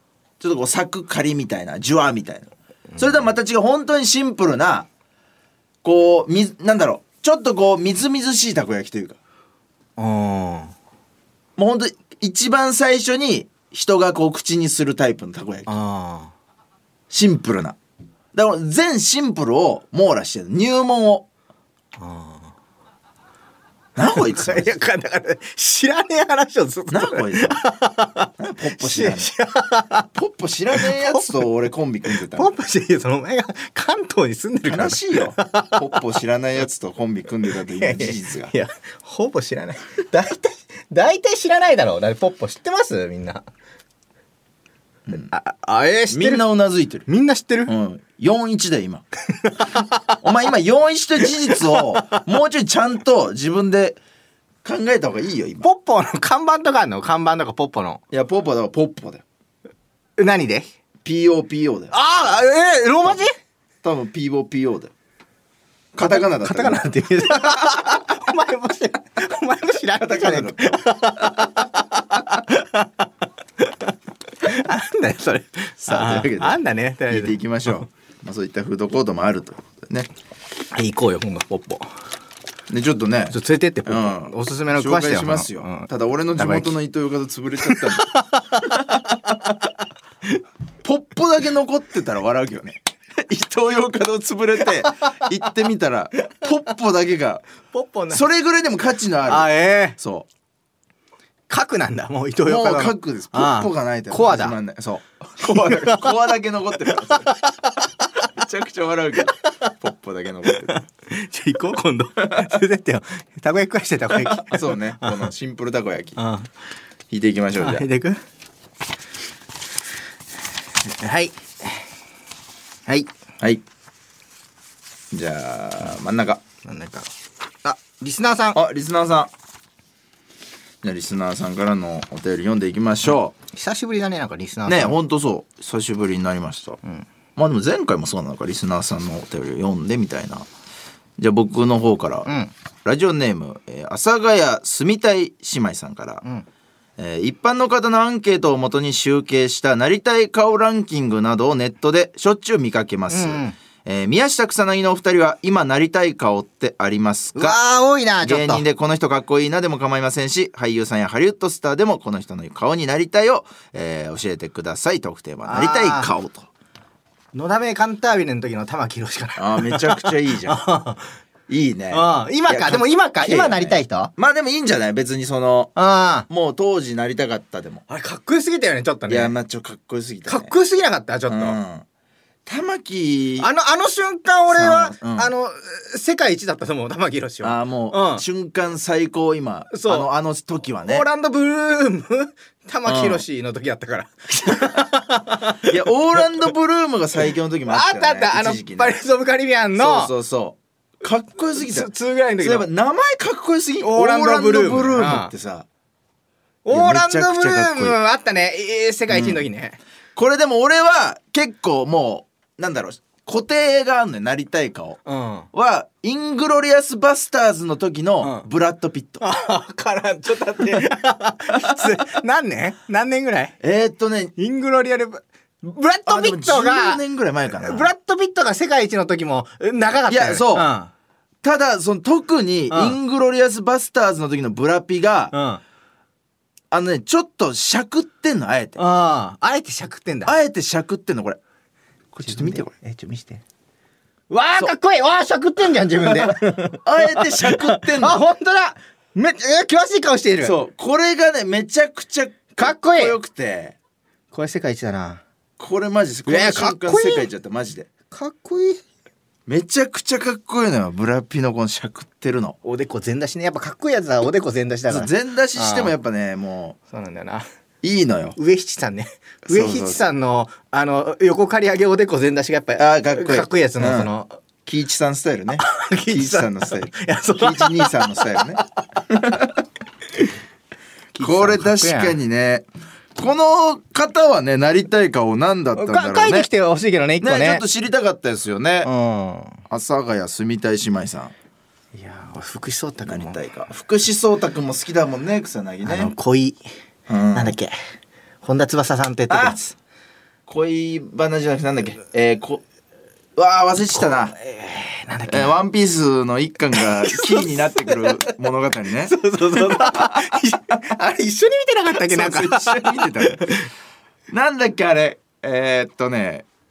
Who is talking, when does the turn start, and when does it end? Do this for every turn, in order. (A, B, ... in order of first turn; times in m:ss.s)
0:00.4-0:04.9 A
0:05.8-0:09.2 A
0:10.0-0:10.7 B
0:11.6-0:15.7 A
0:15.7-0:16.3 B
0:17.1-0:17.8 A
0:18.3-0:21.3 A
0:22.0-0:22.5 B
0:24.0-0:24.8 A
0:24.0-0:30.1 B
0:26.9-0:27.6 A
0:28.4-0:29.3 A
0:30.2-0:32.5 A
0:30.7-0:31.4 B
0:32.1-0:36.1 B
0:34.7-0:38.5 A
0:37.7-0:43.4 B
0:45.1-0:46.4 B
0:46.1-0:47.1 A
0:47.1-0:47.7 B
0:47.7-0:49.0 A
0:49.4-0:50.2 B
0:50.2-0:54.0 A
0:54.6-0:55.7 A
0:55.6-0:58.0 B
0:58.1-0:59.2 A
1:00.2-1:00.7 B
1:01.0-1:01.9 A
1:01.9-1:03.3 B
1:03.8-1:04.9 A
1:06.0-1:08.0 A
1:06.0-1:13.1 B
1:10.0-1:11.4 A
1:13.6-1:17.8 B
1:15.8-1:20.1 A
1:20.7-1:21.9 B
1:22.7-1:29.4 A
1:23.3-1:26.8 B
1:27.6-1:29.4 B
1:30.8-1:37.4 A
1:35.0-1:35.2 B
1:37.7-1:38.2 B
1:38.1-1:40.3 A
1:39.3-1:40.0 B
1:41.5-1:44.6 B
1:42.5-1:47.3 A
1:45.4-1:46.2 B
1:46.8-1:48.1 B
1:48.4-1:50.8 A
1:50.5-1:55.3 B
1:52.2-1:52.6 A
1:54.1-1:56.2 A
1:56.2-1:56.5 B
1:57.1-1:57.9 A
1:57.6-1:58.2 B
2:00.9-2:01.8 B
2:05.1-2:06.4 A
2:06.6-2:07.1 B
2:07.6-2:08.6 B
2:08.5-2:09.3 A
2:10.8-2:13.4 A
2:13.5-2:15.0 B
2:14.7-2:16.8 A
2:17.4-2:20.5 A
2:21.2-2:22.3 A
2:22.3-2:22.5 B
2:22.8-2:26.2 A
2:27.0-2:37.6 A
2:33.1-2:33.6 B
2:37.3-2:38.6 B
2:38.2-2:46.5 A
2:45.4-2:46.1 B
2:47.3-2:51.1 B
2:49.4-2:50.6 A
2:51.5-2:55.7 A
2:51.9-2:54.1 B
2:55.8-2:56.3 B
2:56.3-2:57.8 A
2:57.9-2:59.3 B
2:59.1-3:00.5 A
3:00.3-3:01.6 B
3:01.3-3:01.8 A
3:02.5-3:03.5 A
3:03.4-3:08.2 B
3:04.5-3:05.3 A
3:07.4-3:11.1 A
3:09.7-3:10.1 B
3:10.8-3:15.7 B
3:12.8-3:13.2 A
3:15.6-3:19.0 A
3:17.7-3:20.1 B
3:19.8-3:25.7 A
3:21.6-3:22.7 B
3:23.8-3:25.3 B
3:26.6-3:29.8 B
3:26.7-3:28.0 A
3:29.1-3:29.4 A
3:30.2-3:35.0 A
3:35.1-3:35.5 B
3:35.5-3:39.2 A
3:39.2-3:43.6 B
3:43.6-3:44.3 A
3:44.4-3:50.9 B
3:46.1-3:47.9 A
3:50.1-3:50.7 A
3:51.4-3:55.3 A
3:52.7-3:53.0 B
3:55.3-3:55.6 B
3:56.7-3:58.8 A
3:58.8-4:00.4 B
4:00.2-4:01.4 A
4:02.1-4:03.4 B
4:02.2-4:02.7 A
4:04.3-4:10.6 B
4:06.0-4:08.2 A
4:10.4-4:13.8 A
4:12.6-4:13.2 B
4:14.3-4:15.2 B
4:15.6-4:17.9 A
4:16.3-4:17.3 B
4:18.1-4:18.8 B
4:19.5-4:22.6 A
4:22.6-4:26.0 B
4:24.9-4:26.8 A
4:26.9-4:27.4 B
4:27.8-4:28.4 A
4:28.4-4:34.4 B
4:29.4-4:30.0 A
4:32.8-4:34.1 A
4:34.7-4:39.6 A
4:35.6-4:38.6 B
4:41.1-4:42.2 B
4:41.2-4:46.5 A
4:45.8-4:47.6 B
4:47.2-4:48.9 A
4:48.8-4:49.6 B
4:49.7-4:51.3 A
4:52.0-4:53.4 B
4:53.1-4:56.1 A
4:55.8-4:56.6 B
4:57.1-4:57.6 A
4:57.3-4:57.7 B
4:58.4-4:59.8 B
4:59.3-4:59.6 A
5:00.5-5:02.6 A
5:03.4-5:04.4 A
5:04.0-5:05.6 B
5:05.3-5:10.8 A
5:06.7-5:08.3 B
5:08.9-5:13.7 B
5:12.0-5:13.5 A
5:14.3-5:16.5 A